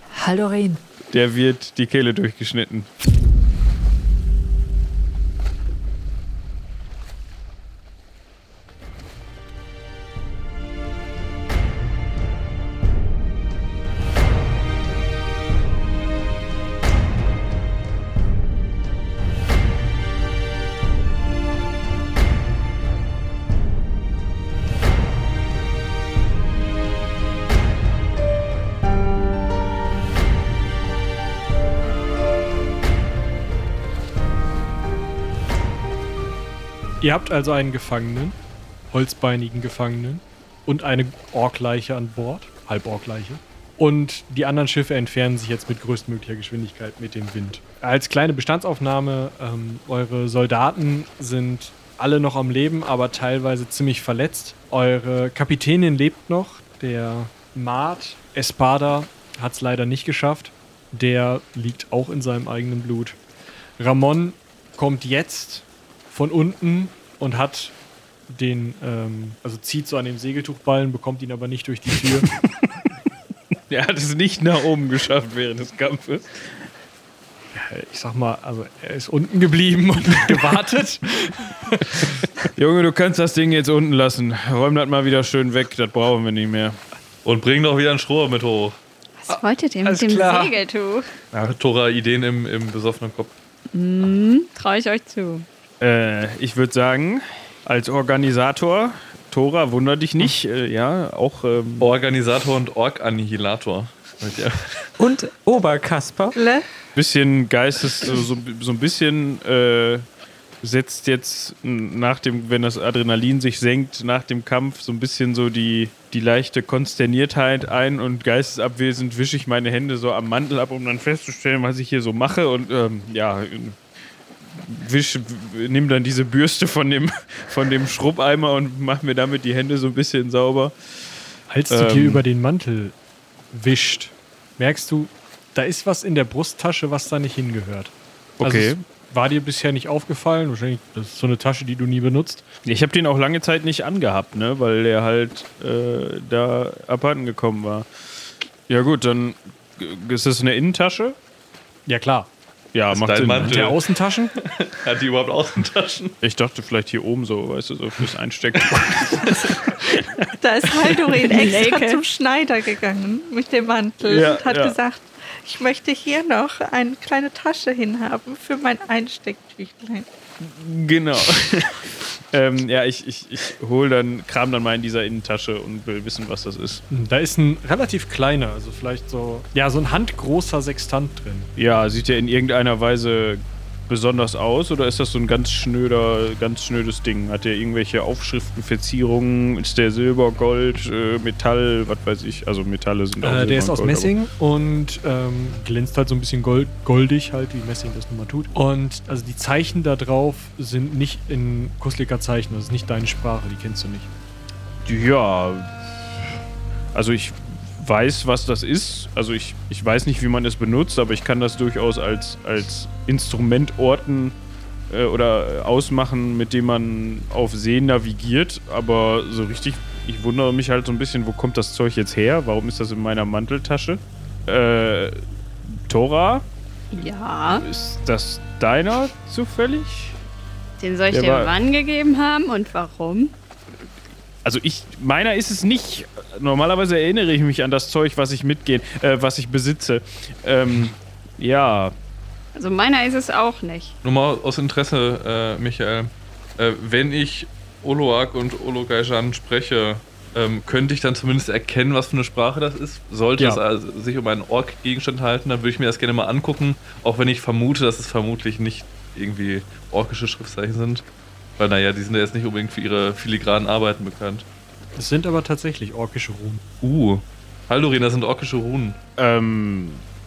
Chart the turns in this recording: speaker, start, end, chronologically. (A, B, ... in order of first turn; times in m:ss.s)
0:00.1-0:00.8 A
0:01.1-0:02.9 B
0:37.0-0:38.4 C
0:38.9-1:03.2 C
1:03.8-1:07.7 C
1:08.3-1:12.3 C
1:13.7-1:16.6 B
1:17.5-1:22.3 C
1:22.6-1:26.8 B
1:27.2-1:28.8 D
1:29.2-1:31.1 E
1:29.3-1:30.5 C
1:31.3-1:33.3 D
1:33.7-1:35.5 E
1:35.8-1:41.9 B
1:41.8-1:44.8 D
1:45.0-1:46.4 A
1:46.3-1:46.6 F
1:46.9-1:50.0 B
1:50.6-2:03.8 B
2:04.5-2:10.8 B
2:11.5-2:12.9 C
2:11.7-2:12.2 B
2:13.5-2:22.4 C
2:18.4-2:18.8 B
2:22.6-2:27.9 B
2:28.7-2:31.2 B
2:31.8-2:32.3 C
2:32.7-2:33.6 B
2:32.9-2:36.1 D
2:33.4-2:34.3 C
2:36.2-2:41.2 B
2:39.0-2:39.3 D
2:40.4-2:50.1 F
2:41.3-2:42.0 E
2:44.0-2:44.7 B
2:50.4-2:56.8 B
2:56.9-3:01.5 C
3:01.6-3:14.1 B
3:13.2-3:24.1 C
3:24.8-3:25.7 B
3:26.9-3:34.4 B
3:34.9-3:46.4 B
3:46.9-3:47.6 E
3:47.6-3:50.2 B
3:50.8-3:53.3 E
3:51.1-3:51.5 B
3:54.4-4:01.9 B
4:02.6-4:03.9 E
4:04.0-4:21.0 D
4:21.6-4:24.4 D
4:25.0-4:26.6 C
4:26.8-4:29.0 D
4:29.2-4:30.0 B